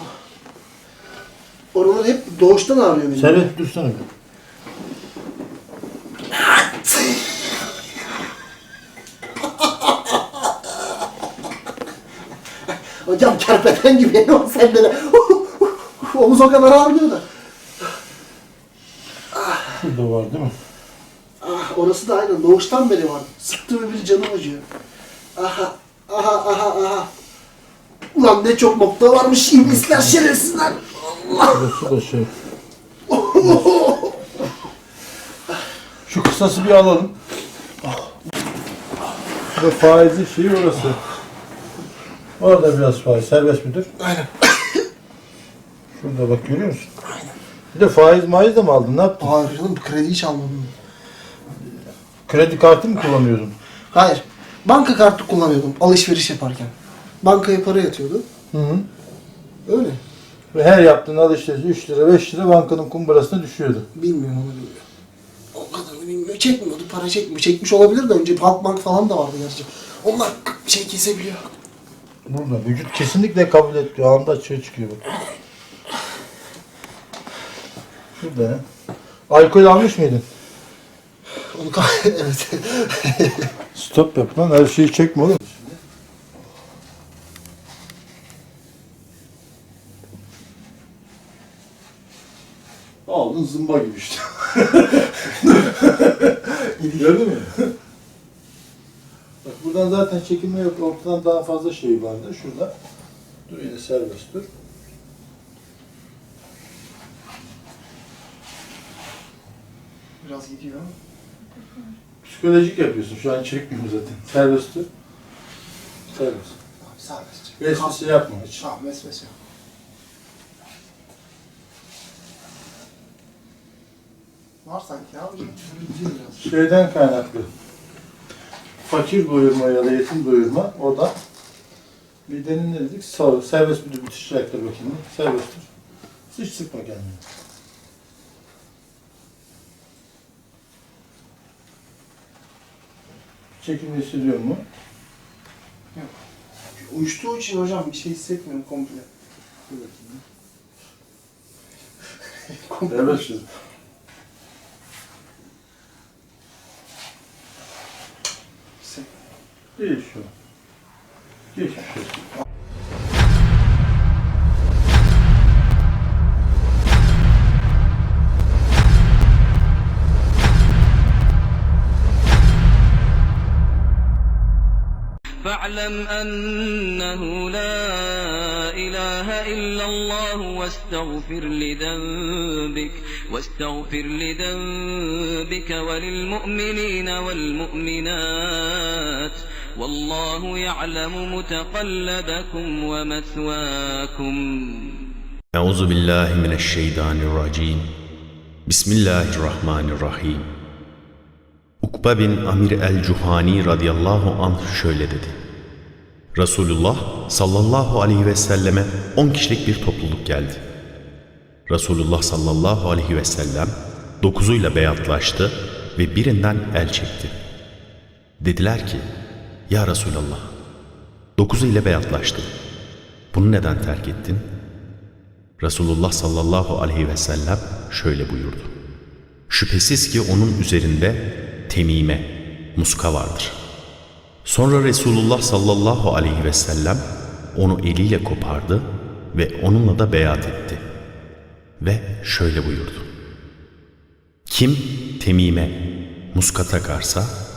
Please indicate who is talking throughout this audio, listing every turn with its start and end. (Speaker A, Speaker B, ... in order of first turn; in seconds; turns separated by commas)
Speaker A: 1.7-3.5, Speaker B: 3.1-4.0, Speaker A: 6.8-7.2, Speaker A: 9.6-10.2, Speaker A: 12.7-17.2, Speaker A: 19.3-19.8, Speaker B: 19.8-20.5, Speaker A: 21.4-24.6, Speaker A: 25.4-27.1, Speaker A: 28.1-31.8, Speaker B: 29.6-30.2, Speaker B: 31.5-32.3, Speaker A: 33.1-34.2, Speaker B: 36.1-37.1, Speaker A: 37.8-38.1, Speaker B: 39.5-41.0, Speaker B: 42.4-43.9, Speaker A: 44.0-44.7, Speaker B: 46.0-46.9, Speaker B: 47.7-49.3, Speaker A: 49.2-50.7, Speaker B: 52.3-53.5, Speaker A: 53.9-58.2, Speaker B: 58.5-58.9, Speaker A: 59.6-60.0, Speaker B: 60.5-63.9, Speaker A: 63.9-64.8, Speaker A: 65.5-71.4, Speaker B: 72.3-75.0, Speaker B: 78.2-78.6, Speaker B: 79.3-80.2, Speaker A: 81.3-83.5, Speaker B: 83.7-85.8, Speaker B: 93.0-96.1, Speaker A: 96.8-97.2, Speaker B: 96.9-97.7, Speaker B: 99.4-102.7, Speaker B: 103.5-104.5, Speaker A: 110.2-110.9, Speaker B: 112.2-114.9, Speaker B: 116.1-116.5, Speaker A: 116.8-119.3, Speaker B: 117.6-118.6, Speaker A: 124.6-126.5, Speaker B: 126.4-127.5, Speaker B: 128.8-131.1, Speaker B: 132.2-135.7, Speaker B: 136.3-137.2, Speaker B: 143.6-144.6, Speaker A: 146.8-149.1, Speaker B: 149.7-150.2, Speaker A: 152.5-153.3, Speaker B: 152.9-153.4, Speaker A: 158.8-159.1, Speaker B: 159.8-160.3, Speaker B: 161.5-162.2, Speaker C: 175.4-195.0, Speaker D: 195.5-197.9, Speaker D: 198.7-200.4, Speaker D: 201.8-205.4, Speaker D: 206.3-210.6, Speaker D: 211.7-217.3, Speaker D: 218.4-219.1, Speaker D: 219.7-220.5, Speaker D: 221.4-222.5, Speaker D: 223.3-224.4, Speaker D: 225.6-228.7, Speaker D: 229.5-233.5, Speaker D: 234.4-237.0, Speaker D: 237.5-240.8, Speaker D: 241.8-243.1, Speaker D: 244.5-245.7, Speaker D: 246.3-247.3